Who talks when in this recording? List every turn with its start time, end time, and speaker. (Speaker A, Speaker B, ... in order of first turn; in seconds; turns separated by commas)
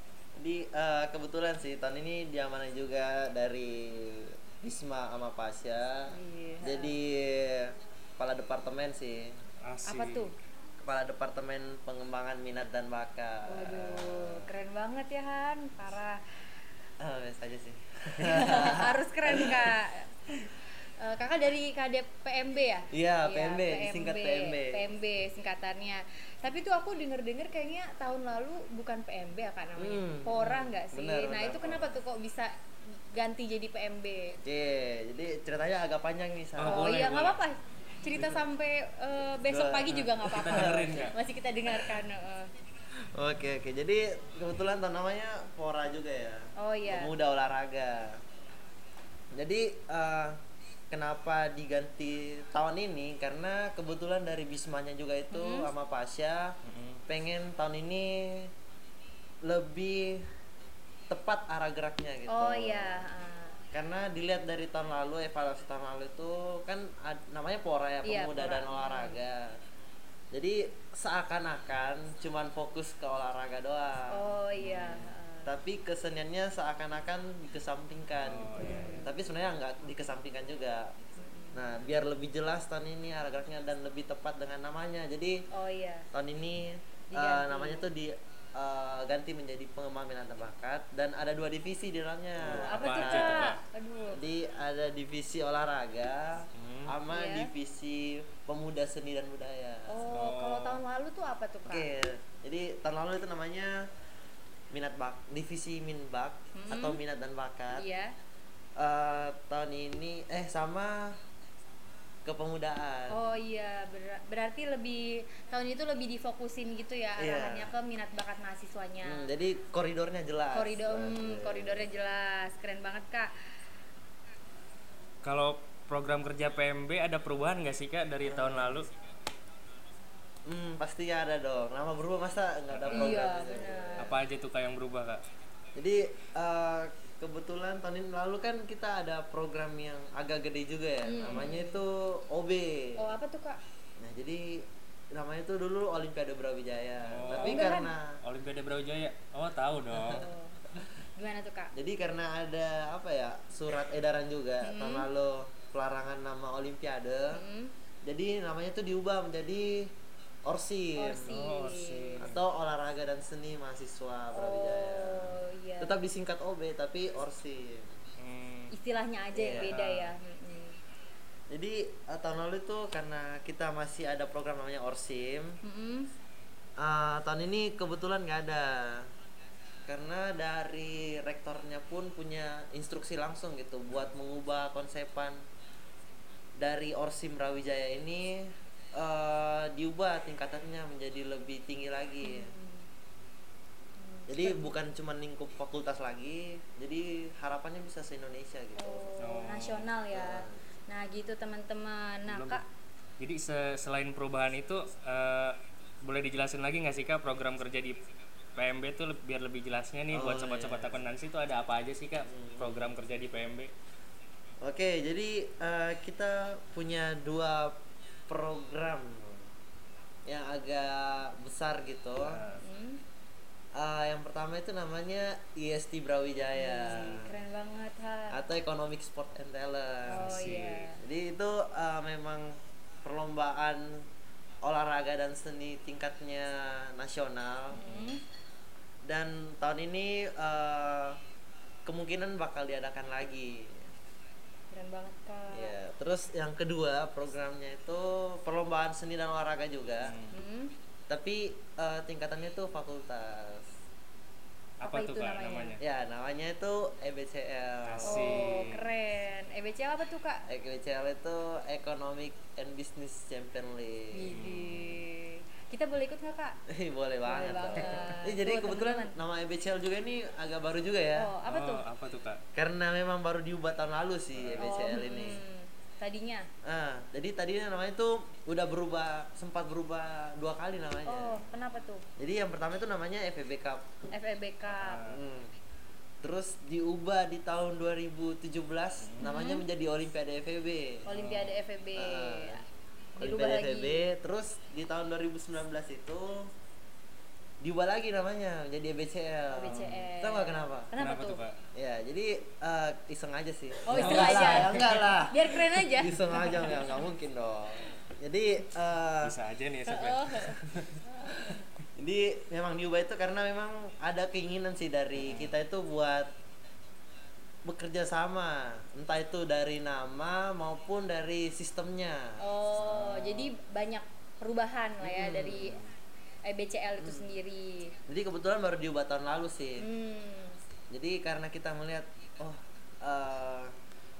Speaker A: 0.4-9.3, Speaker B: 6.1-7.0, Speaker C: 9.6-10.2, Speaker B: 9.9-10.3, Speaker A: 10.8-14.4, Speaker B: 13.5-16.2, Speaker A: 17.0-19.8, Speaker B: 18.2-20.1, Speaker B: 21.0-32.5, Speaker A: 22.9-24.9, Speaker A: 29.8-32.0, Speaker B: 33.1-34.4, Speaker A: 34.4-36.9, Speaker C: 36.6-37.4, Speaker B: 36.6-42.5, Speaker A: 38.1-38.4, Speaker A: 39.5-41.1, Speaker C: 40.2-41.2, Speaker A: 41.7-42.0, Speaker A: 42.9-48.2, Speaker B: 46.5-47.1, Speaker A: 49.3-50.4, Speaker A: 50.9-58.5, Speaker B: 55.3-55.7, Speaker C: 56.6-57.0, Speaker A: 59.5-60.2, Speaker A: 61.1-63.0, Speaker B: 62.3-63.6, Speaker A: 63.7-69.5, Speaker B: 68.0-69.2, Speaker A: 70.3-74.2, Speaker B: 74.1-75.5, Speaker C: 74.6-75.1, Speaker A: 75.5-81.0, Speaker C: 78.2-79.0, Speaker B: 78.6-79.1, Speaker B: 81.2-81.6, Speaker A: 81.5-85.4, Speaker B: 85.5-86.1, Speaker A: 86.1-93.5, Speaker B: 87.1-87.9, Speaker C: 92.4-93.6, Speaker B: 92.5-94.2, Speaker A: 94.1-100.0, Speaker C: 96.5-97.0, Speaker B: 97.1-97.5, Speaker B: 99.9-101.9, Speaker C: 100.1-100.8, Speaker A: 101.7-103.9, Speaker A: 104.7-107.8, Speaker B: 106.5-107.0, Speaker B: 107.7-108.1, Speaker A: 108.8-111.2, Speaker A: 112.2-113.2, Speaker B: 113.1-119.3, Speaker A: 117.2-117.7, Speaker A: 119.0-121.9, Speaker B: 120.5-123.3, Speaker C: 125.2-128.9, Speaker A: 128.2-128.9, Speaker A: 130.4-134.2, Speaker C: 132.7-133.2, Speaker B: 132.9-134.2, Speaker C: 134.0-135.2, Speaker A: 135.8-143.2, Speaker B: 141.0-141.8, Speaker C: 141.2-141.5, Speaker B: 143.0-143.6, Speaker A: 144.0-148.2, Speaker C: 147.1-147.7, Speaker B: 147.4-147.9, Speaker C: 148.2-150.3, Speaker B: 150.1-150.6, Speaker B: 151.2-151.7, Speaker A: 151.7-157.4, Speaker B: 154.6-155.1, Speaker B: 157.3-157.7, Speaker A: 158.0-159.9, Speaker A: 160.4-161.3, Speaker B: 161.0-162.2, Speaker C: 161.2-162.4, Speaker A: 162.2-168.0, Speaker B: 164.3-166.0, Speaker C: 168.2-168.7, Speaker B: 168.7-170.8, Speaker A: 169.3-170.1, Speaker A: 171.5-175.6, Speaker B: 175.6-176.1, Speaker A: 176.8-179.1, Speaker A: 179.9-185.4, Speaker A: 186.6-192.5, Speaker B: 192.2-192.8, Speaker B: 194.0-194.8, Speaker A: 194.3-199.2, Speaker B: 198.8-202.6, Speaker C: 199.2-199.9, Speaker A: 200.1-200.6, Speaker C: 202.3-202.6, Speaker C: 203.2-208.0, Speaker C: 208.6-213.7, Speaker A: 210.1-211.0, Speaker A: 212.3-212.9, Speaker A: 214.6-219.5, Speaker A: 220.2-222.4, Speaker C: 222.2-222.6, Speaker B: 222.6-223.0, Speaker A: 223.8-227.3, Speaker B: 226.6-228.4, Speaker C: 226.9-227.2, Speaker A: 228.3-234.1, Speaker B: 230.1-231.0, Speaker C: 230.1-230.8, Speaker A: 234.6-237.8, Speaker B: 237.7-238.2, Speaker C: 237.8-238.2, Speaker A: 239.1-241.2, Speaker A: 241.9-243.9, Speaker B: 244.7-245.8, Speaker A: 245.5-250.2, Speaker C: 250.0-250.3, Speaker B: 250.3-250.7, Speaker A: 251.1-253.7, Speaker C: 254.8-255.8, Speaker B: 254.8-255.8, Speaker A: 255.8-258.5, Speaker C: 257.9-258.8, Speaker B: 258.1-260.4, Speaker A: 260.5-264.3, Speaker B: 264.1-266.6, Speaker C: 264.3-265.0, Speaker A: 266.7-271.3, Speaker B: 267.2-269.1, Speaker C: 267.8-268.1, Speaker B: 271.1-271.9, Speaker C: 271.5-272.4, Speaker A: 272.5-275.4, Speaker C: 274.3-274.7, Speaker B: 274.6-276.5, Speaker A: 276.6-281.4, Speaker B: 281.1-282.1, Speaker A: 282.2-283.9, Speaker B: 284.1-285.0, Speaker C: 284.7-285.2, Speaker A: 285.0-285.5, Speaker A: 286.2-291.1, Speaker C: 289.0-289.4, Speaker B: 289.2-289.6, Speaker B: 291.1-292.6, Speaker C: 291.1-291.6, Speaker A: 291.9-292.6, Speaker A: 293.2-296.5, Speaker B: 293.2-294.1, Speaker A: 297.6-300.9, Speaker B: 299.5-301.4, Speaker C: 299.6-300.1, Speaker C: 301.0-301.6, Speaker A: 301.8-309.4, Speaker B: 303.9-307.0, Speaker C: 303.9-305.1, Speaker C: 309.2-311.0, Speaker B: 309.9-310.6, Speaker B: 311.2-311.5, Speaker A: 311.5-316.3, Speaker C: 315.2-315.6, Speaker A: 317.6-323.6, Speaker B: 322.4-325.9, Speaker A: 325.0-325.9, Speaker B: 326.4-328.0, Speaker A: 327.0-327.3, Speaker A: 328.1-329.9, Speaker B: 329.8-330.6, Speaker A: 330.9-333.7